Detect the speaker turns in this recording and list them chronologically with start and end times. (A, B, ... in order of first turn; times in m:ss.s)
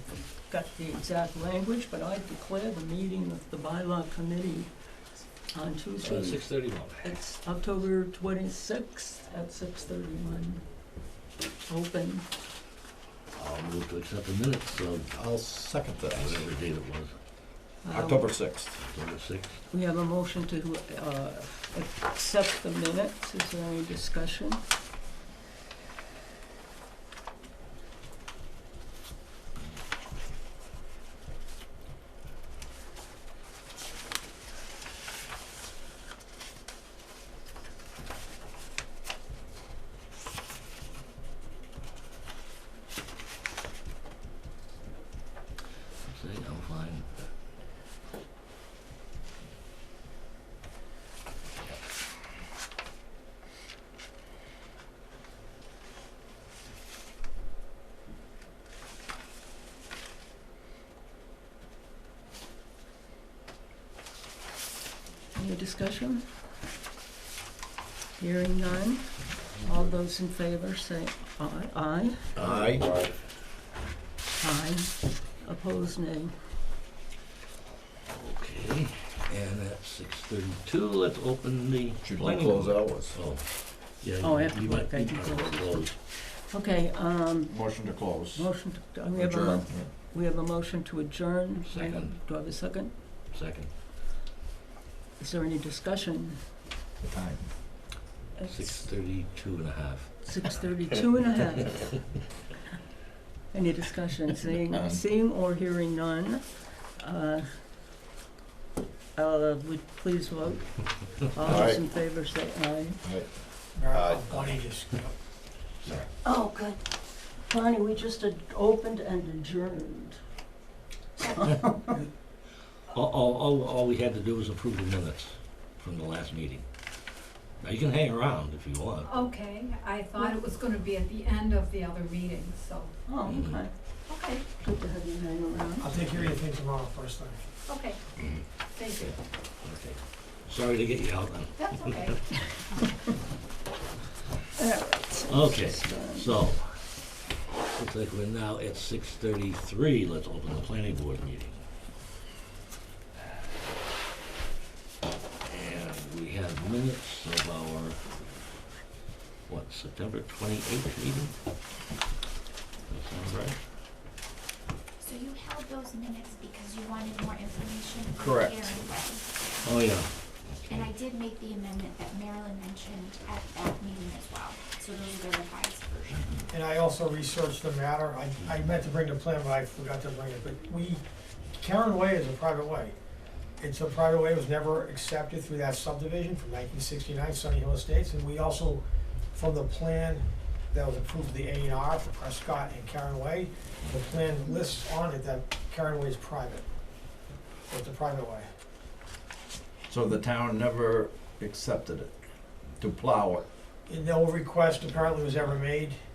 0:00.4-0:04.7 A
0:05.5-0:06.5 A
0:06.0-0:07.0 B
0:07.0-0:10.6 A
0:11.7-0:12.3 A
0:13.4-0:15.1 B
0:15.1-0:16.5 C
0:16.1-0:17.1 B
0:17.8-0:18.3 A
0:17.9-0:18.8 C
0:18.8-0:19.6 B
0:19.7-0:24.6 A
0:46.0-0:47.2 B
1:05.3-1:06.3 A
1:08.2-1:12.2 A
1:12.4-1:13.1 C
1:12.4-1:12.8 B
1:14.4-1:16.3 A
1:18.1-1:26.0 B
1:22.0-1:23.2 C
1:24.2-1:33.0 A
1:27.5-1:28.5 C
1:29.2-1:29.9 C
1:31.7-1:32.2 B
1:33.3-1:33.7 B
1:35.2-1:36.4 A
1:37.0-1:37.5 C
1:38.4-1:38.9 A
1:38.5-1:40.1 B
1:40.2-1:42.0 A
1:43.5-1:47.6 A
1:44.7-1:45.0 C
1:49.2-1:53.0 A
1:51.4-1:51.8 C
1:53.0-1:53.3 C
1:53.8-1:55.1 D
1:53.9-1:54.5 C
1:56.2-2:00.2 A
2:01.2-2:01.5 E
2:01.4-2:01.9 A
2:02.9-2:06.7 B
2:07.6-2:09.2 B
2:09.0-2:13.0 E
2:13.1-2:13.7 A
2:13.3-2:13.6 B
2:14.1-2:14.5 E
2:14.6-2:15.9 A
2:15.8-2:17.4 D
2:17.7-2:18.0 E
2:18.2-2:18.4 B
2:18.8-2:19.2 E
2:19.0-2:22.4 B
2:21.6-2:22.2 E
2:24.6-2:26.4 A
2:25.3-2:26.9 B
2:27.7-2:31.6 B
2:35.4-2:38.1 B
2:39.5-2:41.4 B
2:42.9-2:43.6 B
2:45.0-2:49.8 F
2:48.2-2:48.9 C
2:49.6-2:50.9 B
2:50.7-2:56.4 F
2:56.2-2:56.4 B
2:56.5-3:01.0 D
3:01.6-3:03.0 D
3:03.6-3:08.8 D
3:09.3-3:16.6 D
3:17.7-3:18.5 D
3:19.9-3:22.1 C
3:22.8-3:23.5 C
3:23.9-3:26.0 D